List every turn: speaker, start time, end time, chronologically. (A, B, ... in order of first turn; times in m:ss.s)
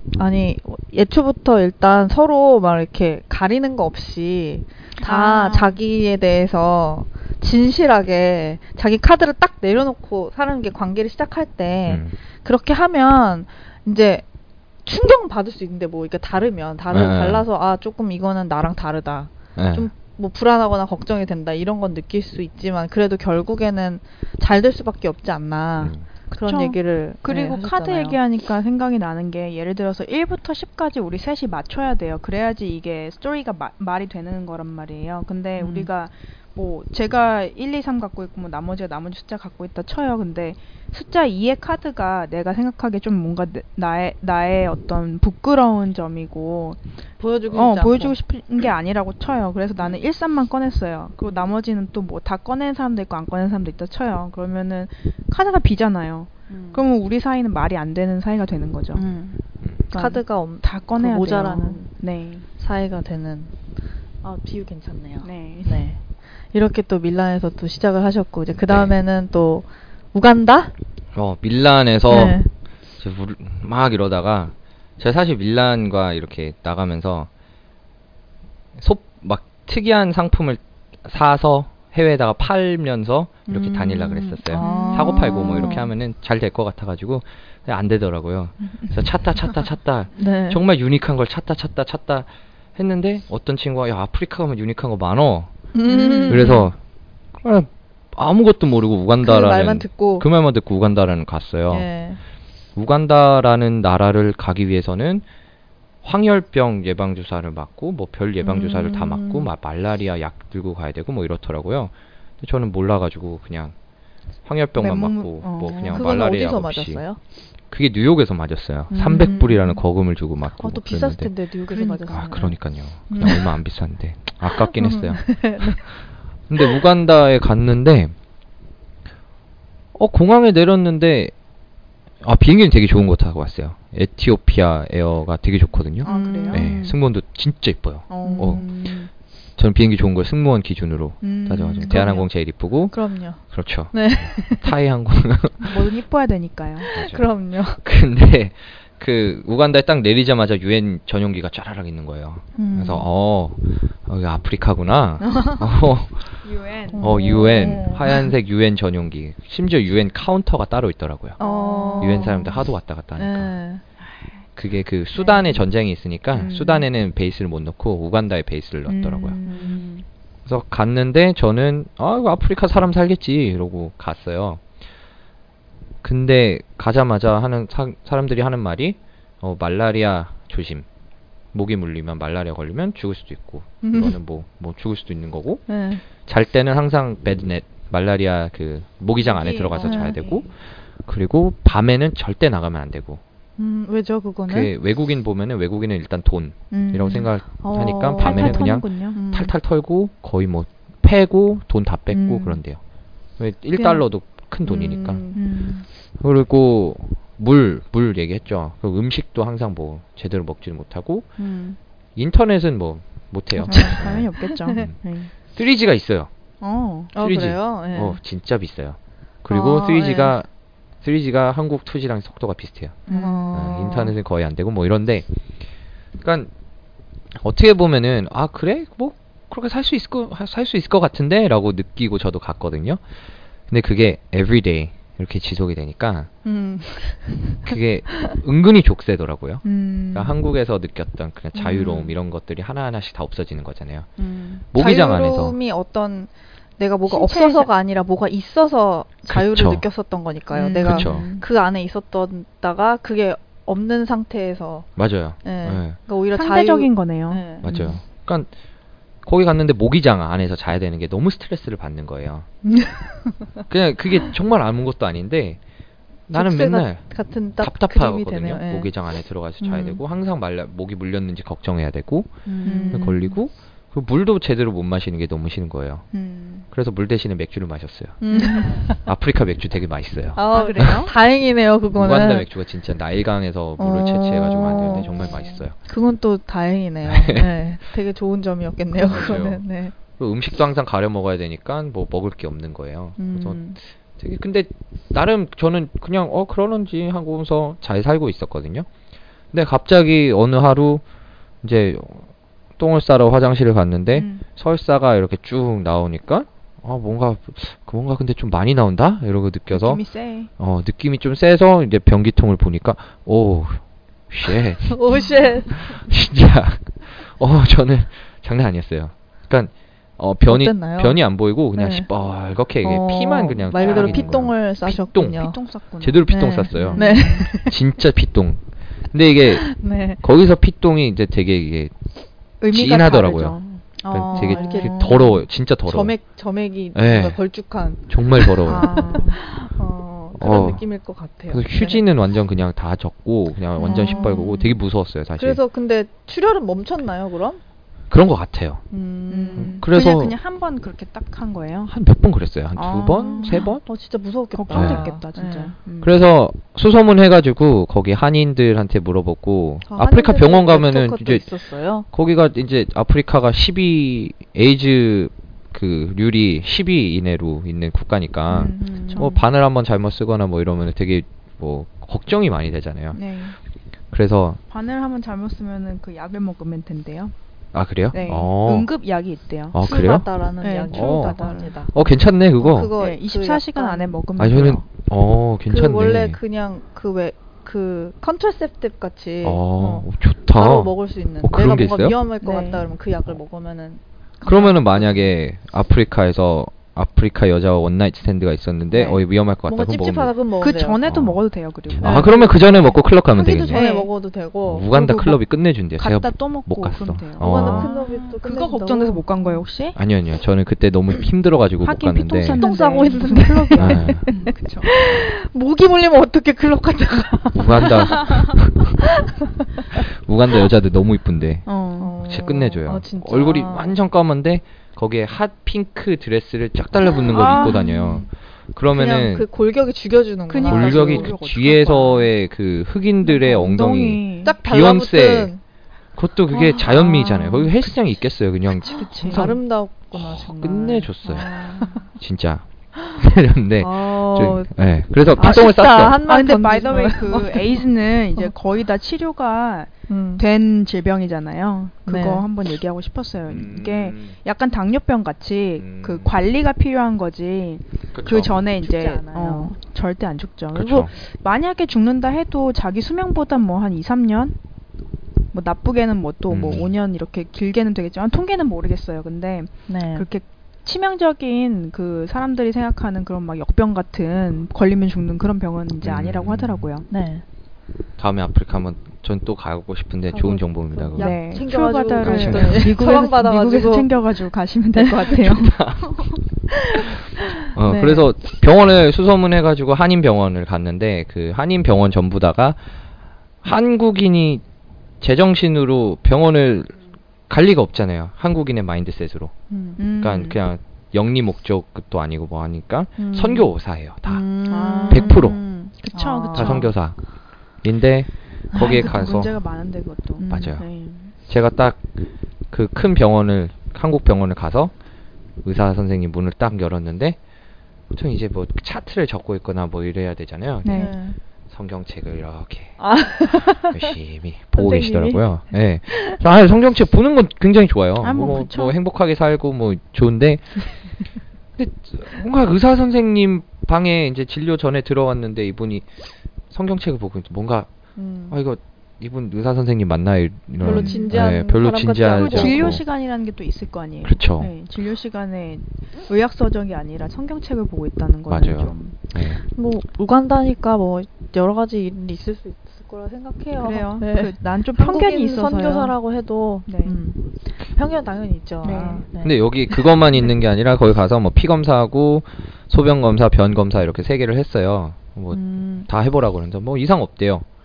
0:00.1-0:14.2 A
0:05.0-0:05.8 B
0:11.9-0:12.2 C
0:14.8-0:28.2 A
0:16.9-0:17.4 C
0:19.6-0:19.9 C
0:25.8-0:26.0 C
0:26.3-0:46.8 B
0:35.6-0:35.9 A
0:47.2-0:48.2 A
0:47.5-0:59.0 B
0:56.5-0:56.8 A
0:58.9-0:59.4 A
0:59.9-1:02.4 B
0:59.9-1:01.9 A
1:02.6-1:03.5 A
1:04.2-1:06.0 A
1:05.2-1:05.9 B
1:06.5-1:10.7 A
1:08.6-1:08.9 C
1:11.1-1:12.4 C
1:12.1-1:12.5 A
1:13.0-1:17.3 C
1:18.8-1:35.5 C
1:23.5-1:25.9 A
1:24.5-1:25.8 B
1:30.2-1:30.6 A
1:35.7-1:36.7 A
1:35.8-1:36.7 B
1:36.3-1:36.8 C
1:37.4-1:41.9 C
1:39.2-1:40.3 A
1:41.7-1:42.2 A
1:42.8-1:45.2 C
1:46.0-1:53.7 C
1:48.4-1:49.5 A
1:54.4-1:57.0 C
1:54.8-1:56.1 B
1:55.9-1:57.2 A
1:57.7-2:01.3 C
1:58.9-1:59.6 B
1:58.9-1:59.8 A
2:00.6-2:02.5 A
2:01.7-2:02.4 B
2:02.1-2:05.9 C
2:03.1-2:03.4 A
2:04.7-2:05.8 A
2:06.5-2:08.1 C
2:09.9-2:11.3 C
2:12.2-2:18.6 C
2:16.0-2:16.9 B
2:16.0-2:16.7 A
2:18.1-2:19.1 B
2:18.2-2:18.9 A
2:19.6-2:25.7 C
2:21.2-2:22.2 B
2:21.9-2:22.2 A
2:22.9-2:24.7 A
2:25.6-2:26.9 B
2:26.8-2:27.8 A
2:26.9-2:27.2 C
2:27.8-2:36.4 C
2:32.6-2:32.9 A
2:32.6-2:33.0 B
2:35.2-2:35.6 B
2:36.4-2:38.2 B
2:36.9-2:38.2 A
2:37.0-2:41.4 C
2:41.4-2:42.5 A
2:41.4-2:42.5 B
2:42.0-2:43.5 C
2:43.2-2:43.8 A
2:44.6-2:49.4 C
2:45.2-2:45.5 B
2:46.3-2:46.8 B
2:48.9-2:50.0 B
2:49.4-2:50.0 A
2:50.4-2:54.6 C
2:56.0-3:00.8 C
3:01.5-3:10.5 C
3:03.8-3:04.1 A
3:05.7-3:06.0 A
3:09.2-3:10.4 B
3:09.7-3:10.2 A
3:11.0-3:13.2 C
3:13.6-3:14.7 A
3:14.5-3:22.8 C
3:16.7-3:19.2 B
3:17.6-3:19.5 A
3:22.1-3:22.6 B
3:23.4-3:25.2 C
3:23.7-3:24.0 A
3:24.6-3:25.4 A
3:25.3-3:25.8 B
3:26.2-3:31.3 C
3:31.4-3:31.7 B
3:32.2-3:34.3 C
3:33.6-3:35.3 B
3:33.6-3:34.7 A
3:35.5-3:36.3 C
3:36.6-3:37.1 B
3:37.1-3:38.2 A
3:37.2-3:40.5 C
3:39.5-3:40.4 A
3:41.0-3:45.3 C
3:43.1-3:43.6 B
3:43.1-3:44.1 A
3:46.2-3:46.5 C
3:47.4-3:53.0 C
3:53.7-3:56.3 C
3:56.4-3:57.7 A
3:57.6-4:04.1 C
3:59.6-4:00.3 B
4:01.6-4:02.1 B
4:04.2-4:04.6 B
4:04.7-4:05.6 C
4:04.7-4:14.9 A
4:07.1-4:07.7 B
4:09.3-4:09.8 C
4:10.5-4:11.4 B
4:10.8-4:11.3 C
4:15.0-4:16.0 C
4:15.4-4:18.0 A
4:16.3-4:17.8 B
4:17.6-4:18.5 C
4:19.2-4:22.4 C
4:22.7-4:23.6 A
4:23.7-4:25.6 C
4:26.3-4:27.0 C
4:26.3-4:28.9 A
4:27.6-4:36.1 C
4:29.6-4:30.0 A
4:32.4-4:33.2 A
4:32.6-4:33.3 B
4:36.1-4:36.7 B
4:36.7-4:38.2 C
4:38.2-4:39.0 A
4:38.3-4:38.9 B
4:39.0-4:41.1 C
4:40.3-4:42.5 A
4:40.5-4:41.1 B
4:41.9-4:45.7 C
4:43.8-4:49.9 A
4:47.0-4:47.5 C
4:49.0-4:58.9 C
4:53.2-4:53.8 A
4:59.5-5:01.0 C
5:01.6-5:02.3 C
5:02.8-5:10.0 C
5:04.1-5:04.4 B
5:09.7-5:10.5 B
5:10.6-5:15.2 C
5:14.9-5:16.0 A
5:15.8-5:25.4 C
5:20.4-5:22.1 A
5:22.8-5:25.6 A
5:23.7-5:24.4 B
5:25.3-5:27.5 B
5:26.0-5:31.9 C
5:26.3-5:27.7 A
5:29.7-5:30.2 A
5:32.6-5:35.3 B
5:32.7-5:36.1 C
5:34.0-5:42.0 A
5:36.9-5:37.4 C
5:38.1-5:39.0 C
5:38.6-5:39.4 B
5:40.4-5:40.8 C
5:41.5-5:45.6 C
5:43.8-5:44.7 A
5:43.8-5:44.6 B
5:45.4-5:47.6 A
5:48.1-5:48.8 C
5:48.9-5:49.8 A
5:49.3-5:51.9 B
5:49.6-5:50.4 C
5:51.9-5:53.8 C
5:52.8-5:53.7 B
5:53.4-5:55.7 A
5:54.5-5:56.1 B
5:54.7-5:55.0 C
5:56.0-6:01.4 C
5:59.9-6:02.0 A
6:02.1-6:13.2 C
6:08.5-6:09.4 B
6:08.8-6:09.4 A
6:13.1-6:13.6 B
6:14.1-6:14.6 C
6:14.7-6:17.3 B
6:17.7-6:18.9 C
6:18.1-6:20.0 B
6:19.7-6:20.3 C
6:19.8-6:21.9 A
6:20.6-6:21.7 B
6:20.9-6:22.9 C
6:22.6-6:24.2 A
6:23.0-6:24.8 B
6:24.4-6:26.4 C
6:25.7-6:35.3 A
6:29.4-6:32.2 C
6:32.4-6:32.9 B
6:34.4-6:40.3 C
6:38.9-6:41.0 A
6:40.6-6:42.9 B
6:41.0-6:41.4 C
6:41.9-6:43.8 C
6:42.0-6:45.2 A
6:43.7-6:44.1 B
6:44.7-6:47.9 C
6:44.9-6:45.4 B
6:46.0-6:50.0 B
6:47.4-6:49.6 A
6:50.0-6:52.6 C
6:51.8-6:55.1 B
6:52.6-7:00.0 A
6:53.8-6:54.2 C
6:57.5-6:59.0 C
6:59.9-7:01.7 C
7:01.7-7:02.1 B
7:02.0-7:03.9 A
7:02.2-7:09.4 C
7:07.2-7:08.2 B
7:07.6-7:07.9 A
7:08.9-7:11.3 A
7:10.5-7:12.3 B
7:10.6-7:15.5 C
7:13.2-7:14.6 B
7:14.4-7:15.6 A
7:16.1-7:19.6 C
7:16.5-7:17.7 A
7:18.9-7:19.5 B
7:18.9-7:22.1 A
7:20.1-7:21.6 C
7:21.4-7:22.0 B
7:22.1-7:26.2 C
7:23.8-7:24.7 A
7:25.3-7:27.8 A
7:25.4-7:44.6 B
7:30.1-7:30.4 A
7:32.1-7:32.4 A
7:33.4-7:34.4 C
7:35.8-7:36.3 C
7:38.1-7:38.6 C
7:38.7-7:39.7 A
7:40.7-7:41.1 C
7:45.5-7:57.0 B
7:46.5-7:46.9 C
7:49.9-7:50.2 A
7:56.0-7:56.9 C
7:57.1-7:57.4 A
7:58.2-8:01.4 C
8:00.3-8:04.1 A
8:01.2-8:06.3 B
8:02.2-8:02.9 C
8:05.0-8:05.4 A
8:05.4-8:06.2 C
8:06.7-8:08.3 A
8:07.7-8:12.8 C
8:13.6-8:14.6 C
8:15.2-8:17.0 C
8:17.5-8:19.5 C
8:19.7-8:20.0 A
8:20.0-8:20.6 B
8:20.2-8:24.4 C
8:23.2-8:23.7 A
8:24.2-8:26.9 A
8:24.7-8:26.9 B
8:25.1-8:25.6 C
8:26.5-8:27.2 C
8:27.8-8:29.5 C
8:28.8-8:31.3 B
8:30.4-8:30.6 A
8:30.5-8:30.8 C
8:31.5-8:32.1 C
8:32.7-8:34.9 C
8:35.6-8:37.4 C
8:38.1-8:41.1 C
8:40.8-8:41.2 B
8:40.9-8:41.4 A
8:41.7-8:50.8 C
8:43.0-8:44.1 A
8:44.8-8:45.4 A
8:46.1-8:46.4 A
8:48.2-8:49.0 B
8:51.8-8:56.1 C
8:56.7-8:57.9 C
8:58.2-8:58.6 A
8:58.5-9:03.0 C
9:00.8-9:03.0 A
9:00.8-9:01.4 B
9:02.3-9:09.2 B
9:04.2-9:04.7 C
9:08.5-9:09.6 C
9:09.6-9:20.0 A
9:13.8-9:16.1 B
9:16.8-9:17.2 B
9:18.8-9:19.2 B
9:18.8-9:27.6 C
9:25.5-9:26.1 A